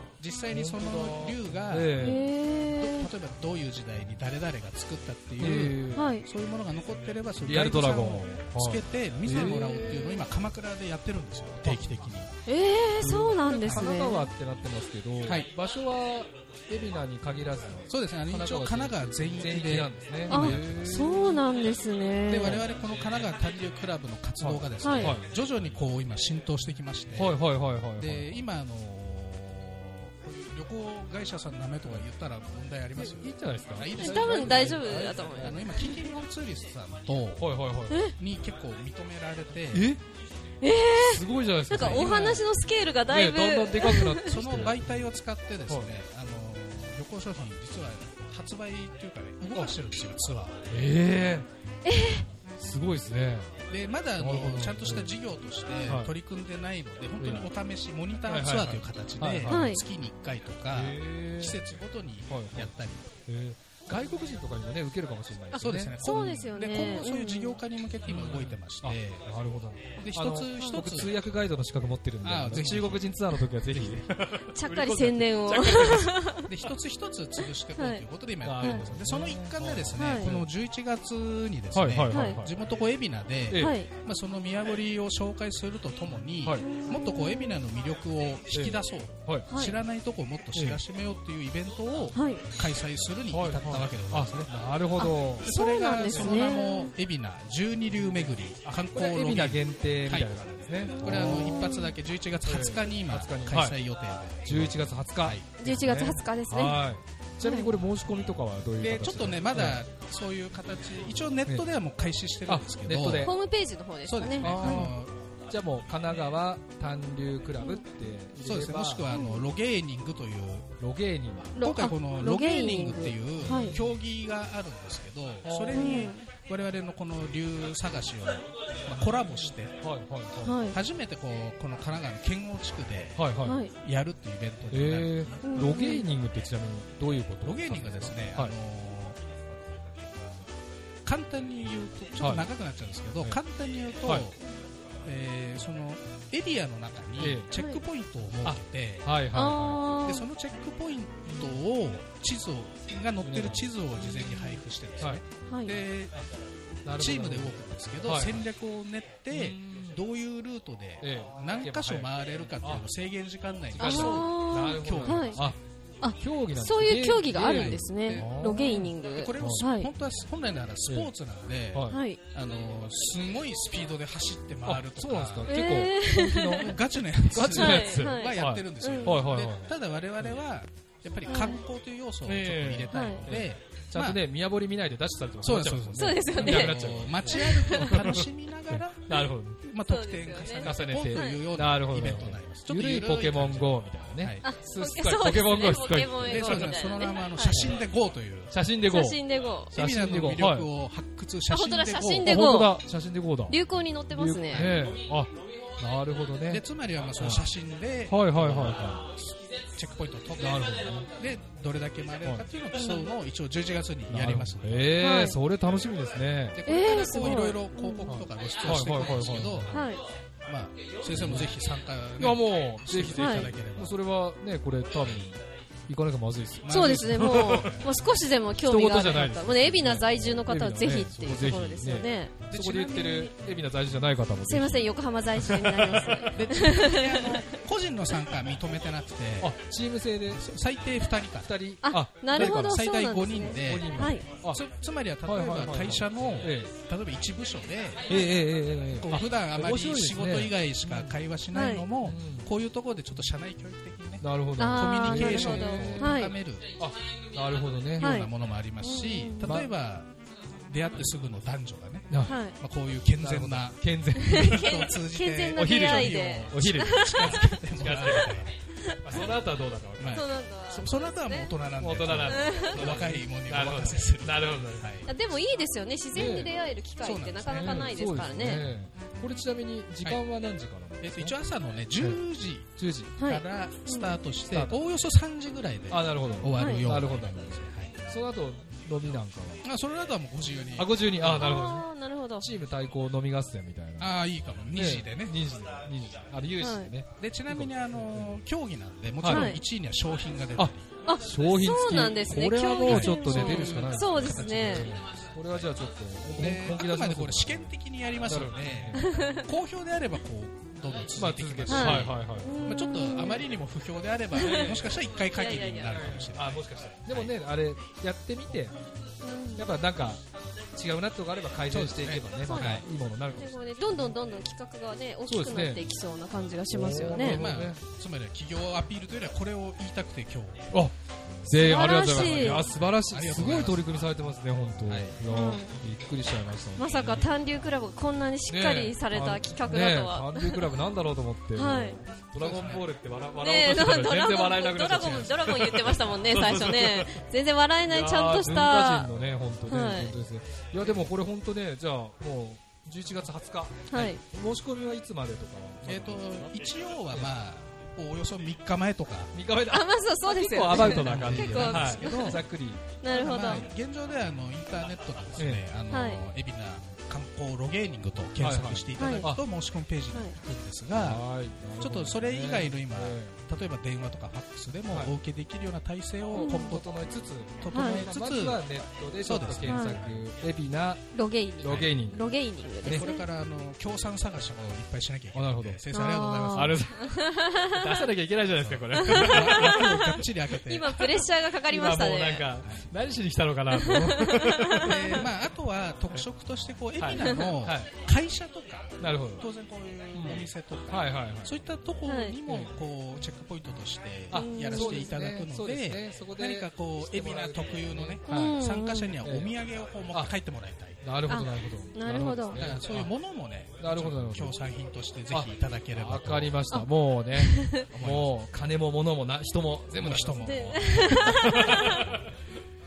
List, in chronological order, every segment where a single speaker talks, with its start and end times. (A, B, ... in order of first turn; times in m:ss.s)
0:00.2-0:12.3 A
0:00.5-0:02.3 B
0:02.0-0:03.1 C
0:05.4-0:06.1 B
0:05.9-0:06.2 C
0:07.4-0:10.2 B
0:12.4-0:14.3 C
0:13.0-0:21.4 B
0:13.6-0:13.9 A
0:15.2-0:15.5 A
0:17.9-0:21.0 A
0:20.3-0:22.6 C
0:22.2-0:37.6 A
0:24.4-0:25.3 B
0:24.8-0:25.2 C
0:27.2-0:28.4 B
0:33.0-0:35.6 B
0:33.9-0:36.0 C
0:37.4-0:38.1 B
0:37.9-0:38.1 C
0:38.1-0:39.9 A
0:39.7-0:40.0 B
0:40.6-0:44.3 C
0:40.9-0:42.4 B
0:41.7-0:42.2 A
0:43.1-0:44.8 B
0:44.2-0:50.9 A
0:50.7-0:51.5 B
0:51.8-0:52.2 C
0:52.6-0:53.5 B
0:53.7-1:03.1 A
0:54.2-0:55.1 B
0:55.9-0:56.1 B
0:57.2-0:57.5 B
0:58.3-0:59.8 B
0:59.5-0:59.8 C
1:00.7-1:01.6 B
1:02.3-1:02.7 B
1:03.2-1:06.0 B
1:05.5-1:09.2 A
1:05.9-1:07.6 C
1:08.1-1:16.2 B
1:10.0-1:10.8 C
1:10.0-1:11.2 A
1:12.2-1:14.2 A
1:14.5-1:16.5 C
1:16.4-1:34.5 A
1:17.8-1:18.0 C
1:18.4-1:20.5 B
1:20.0-1:20.3 C
1:21.7-1:22.6 B
1:22.1-1:22.4 C
1:23.5-1:23.8 B
1:23.5-1:23.9 C
1:26.4-1:26.7 B
1:26.6-1:27.6 C
1:28.5-1:29.5 B
1:29.5-1:29.8 C
1:30.5-1:30.8 B
1:32.1-1:32.4 C
1:33.3-1:35.5 B
1:35.0-1:36.9 C
1:35.4-1:40.3 A
1:36.1-1:36.6 B
1:38.0-1:41.7 B
1:40.9-1:42.0 C
1:41.0-1:45.5 A
1:42.4-1:43.8 B
1:44.4-1:49.8 B
1:45.6-1:46.8 C
1:47.4-1:47.7 C
1:48.8-1:53.3 A
1:52.5-1:53.3 B
1:53.2-1:54.9 C
1:54.0-1:55.1 A
1:54.4-1:55.0 B
1:55.5-1:59.1 B
1:58.4-2:00.7 A
1:59.1-1:59.4 C
2:00.8-2:01.6 B
2:01.6-2:03.7 C
2:01.6-2:09.8 A
2:03.4-2:03.9 B
2:05.4-2:06.0 B
2:05.7-2:06.3 C
2:09.8-2:10.7 B
2:10.4-2:10.8 C
2:10.7-2:15.2 A
2:13.2-2:13.6 B
2:13.4-2:13.7 C
2:14.7-2:18.5 B
2:15.4-2:16.0 C
2:17.4-2:19.2 A
2:21.0-2:24.4 A
2:22.2-2:22.5 B
2:25.0-2:29.1 A
2:27.2-2:27.5 B
2:27.5-2:27.8 C
2:28.4-2:30.0 B
2:29.3-2:30.3 C
2:30.0-2:36.2 A
2:33.2-2:33.7 B
2:34.2-2:34.5 C
2:35.5-2:35.8 C
2:36.8-2:38.4 B
2:37.0-2:45.5 A
2:39.3-2:40.0 B
2:41.0-2:42.8 B
2:43.7-2:45.6 B
2:43.8-2:45.4 C
2:46.0-2:49.9 C
2:46.1-2:49.6 B
2:47.3-2:55.6 A
2:51.7-2:52.0 B
2:51.9-2:52.2 C
2:54.6-2:56.8 B
2:55.5-2:56.8 C
2:56.5-3:04.2 A
2:57.3-3:00.3 B
2:57.5-2:59.2 C
3:01.3-3:01.6 C
3:02.2-3:09.6 B
3:02.9-3:03.2 C
3:05.4-3:14.4 A
3:06.0-3:08.2 C
3:09.8-3:11.4 C
3:10.6-3:16.8 B
3:14.4-3:17.8 C
3:16.2-3:18.5 A
3:18.5-3:20.7 B
3:18.9-3:19.7 C
3:19.7-3:22.4 A
3:21.5-3:22.8 C
3:22.2-3:23.6 B
3:23.5-3:24.8 C
3:24.1-3:26.6 B
3:26.5-3:35.0 A
3:27.2-3:27.4 B
3:28.1-3:29.0 B
3:30.4-3:31.1 B
3:32.8-3:33.1 C
3:34.1-3:36.6 B
3:35.0-3:35.4 C
3:36.5-3:39.9 A
3:36.6-3:38.1 C
3:38.0-3:39.8 B
3:39.7-3:40.0 C
3:40.4-3:44.0 A
3:41.1-3:41.6 B
3:42.2-3:47.9 B
3:43.1-3:43.5 C
3:46.6-3:47.9 A
3:46.7-3:52.3 C
3:48.6-3:56.4 B
3:52.5-3:53.3 A
3:54.5-3:57.4 C
3:56.3-3:59.6 A
3:59.4-4:00.5 B
4:00.3-4:01.6 A
4:01.4-4:02.8 B
4:01.8-4:04.2 C
4:02.3-4:08.4 A
4:03.5-4:04.6 B
4:05.2-4:06.7 B
4:08.0-4:11.2 B
4:08.9-4:16.8 A
4:11.5-4:11.9 C
4:12.0-4:12.5 B
4:14.2-4:18.2 B
4:14.6-4:16.4 C
4:18.0-4:20.1 A
4:18.0-4:19.5 C
4:19.4-4:19.7 B
4:20.7-4:28.5 A
4:22.1-4:22.4 B
4:22.2-4:22.6 C
4:23.2-4:24.8 B
4:24.2-4:27.6 C
4:25.5-4:30.3 B
4:28.8-4:29.2 C
4:30.0-4:35.1 A
4:30.1-4:31.5 C
4:31.8-4:34.9 B
4:32.3-4:32.8 C
4:35.0-4:38.7 C
4:36.1-4:36.5 B
4:37.0-4:38.1 A
4:37.5-4:41.3 B
4:41.0-4:48.0 A
4:42.8-4:43.1 B
4:43.2-4:44.2 C
4:44.5-4:44.8 B
4:45.9-4:49.6 B
4:46.5-4:46.8 C
4:49.6-4:51.6 A
4:50.8-4:54.2 B
4:51.3-4:52.5 C
4:54.0-4:55.4 A
4:54.7-4:58.4 B
4:56.6-4:56.9 C
4:57.2-5:01.0 A
4:59.2-4:59.6 B
4:59.2-4:59.6 C
5:00.6-5:07.7 B
5:01.0-5:04.9 C
5:02.8-5:05.6 A
5:06.4-5:17.3 A
5:08.2-5:09.4 B
5:09.0-5:09.5 C
5:11.1-5:12.6 B
5:11.7-5:13.5 C
5:14.3-5:16.0 C
5:14.4-5:15.2 B
5:15.9-5:18.8 B
5:19.2-5:19.7 C
5:19.6-5:20.2 B
5:20.7-5:24.1 B
5:21.7-5:22.8 A
5:22.4-5:22.8 C
5:23.4-5:27.4 C
5:25.3-5:25.8 B
5:26.7-5:27.8 B
5:27.1-5:30.7 A
5:30.7-5:37.3 B
5:31.6-5:32.7 C
5:32.2-5:34.0 A
5:34.8-5:35.2 A
5:35.3-5:35.8 C
5:36.8-5:40.7 C
5:38.5-5:47.2 B
5:41.6-5:42.0 C
5:42.4-5:42.8 A
5:43.4-5:49.1 C
5:47.9-5:57.3 B
5:49.6-5:50.1 C
5:53.9-5:54.2 C
5:55.8-5:59.3 A
5:59.3-6:03.6 B
5:59.7-6:02.4 C
6:00.7-6:02.4 A
6:03.0-6:03.6 C
6:03.1-6:11.2 A
6:05.4-6:05.6 B
6:05.9-6:06.2 C
6:08.4-6:09.4 B
6:09.0-6:09.3 C
6:10.9-6:13.4 B
6:11.8-6:16.9 A
6:14.9-6:15.1 B
6:16.3-6:22.2 B
6:16.3-6:16.8 C
6:17.6-6:18.6 A
6:17.7-6:18.0 C
6:19.2-6:20.1 A
6:19.6-6:20.0 C
6:21.1-6:23.2 C
6:21.7-6:21.9 A
6:22.8-6:23.1 B
6:22.8-6:26.9 A
6:25.3-6:25.8 B
6:25.9-6:28.0 C
6:26.5-6:30.2 B
6:28.5-6:31.2 A
6:28.9-6:32.5 C
6:31.7-6:35.2 B
6:33.7-6:35.2 C
6:34.8-6:51.0 A
6:37.0-6:37.9 B
6:37.2-6:37.4 C
6:39.0-6:39.5 B
6:40.1-6:41.6 B
6:42.0-6:42.4 C
6:44.3-6:48.7 B
6:44.3-6:45.1 C
6:48.3-6:49.2 C
6:49.2-6:49.5 B
6:51.0-6:53.1 B
6:51.3-6:52.6 C
6:52.5-6:56.6 A
6:53.8-6:54.6 B
6:55.3-7:02.4 B
6:56.7-6:57.8 C
6:57.9-6:58.3 A
6:59.9-7:02.1 A
7:00.4-7:02.0 C